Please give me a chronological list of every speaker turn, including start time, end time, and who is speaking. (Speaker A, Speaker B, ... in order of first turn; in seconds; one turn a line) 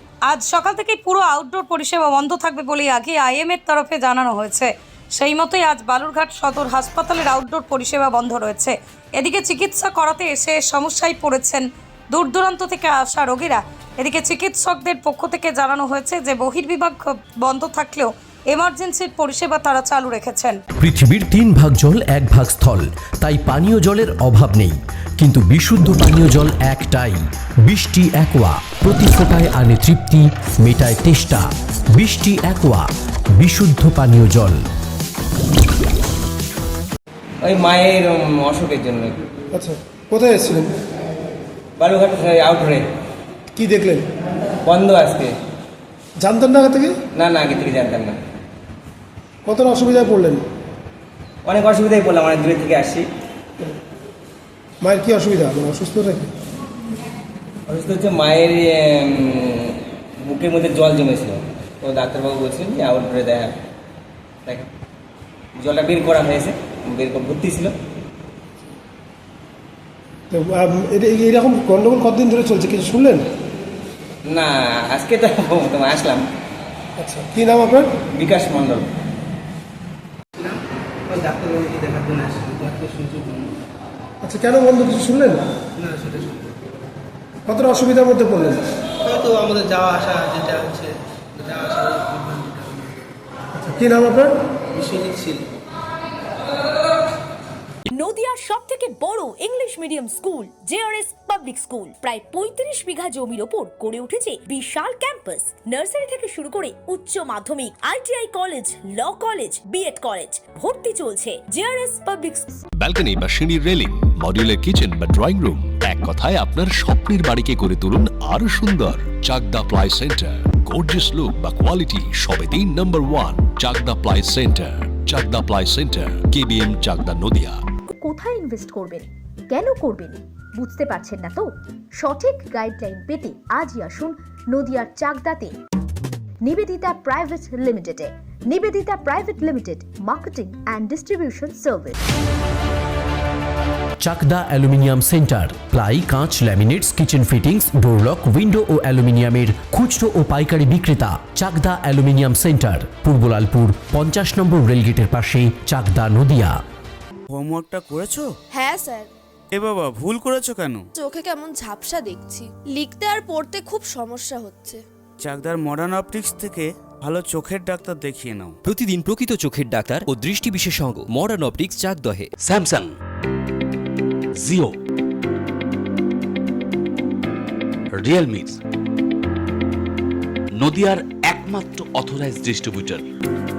Speaker A: 0.2-20.6
Speaker B: 20.8-32.8
Speaker B: 33.4-34.6
Speaker C: 37.5-39.1
Speaker D: 39.5-40.7
Speaker C: 41.8-42.8
Speaker D: 43.5-44.0
Speaker C: 44.7-45.3
Speaker D: 46.2-46.9
Speaker C: 47.2-48.1
Speaker D: 49.5-50.4
Speaker C: 51.5-53.0
Speaker D: 54.8-56.3
Speaker C: 57.7-58.6
Speaker C: 60.3-61.3
Speaker C: 61.9-63.5
Speaker C: 65.6-67.7
Speaker D: 70.3-73.3
Speaker C: 74.3-76.2
Speaker D: 77.0-77.9
Speaker C: 78.2-78.8
Speaker E: 81.1-83.3
Speaker D: 84.2-85.4
Speaker E: 85.8-86.4
Speaker D: 87.5-88.6
Speaker E: 89.0-92.8
Speaker D: 93.6-94.4
Speaker E: 94.7-95.4
Speaker F: 97.9-112.5
Speaker G: 112.8-127.6
Speaker H: 128.0-131.4
Speaker H: 132.0-135.5
Speaker H: 136.4-142.0
Speaker B: 144.0-156.5
Speaker I: 157.3-158.2
Speaker J: 158.5-159.1
Speaker I: 159.5-160.8
Speaker J: 160.9-164.8
Speaker I: 165.2-168.6
Speaker K: 168.6-172.3
Speaker L: 172.4-172.9
Speaker L: 174.4-174.7
Speaker L: 177.9-178.6
Speaker L: 180.6-183.0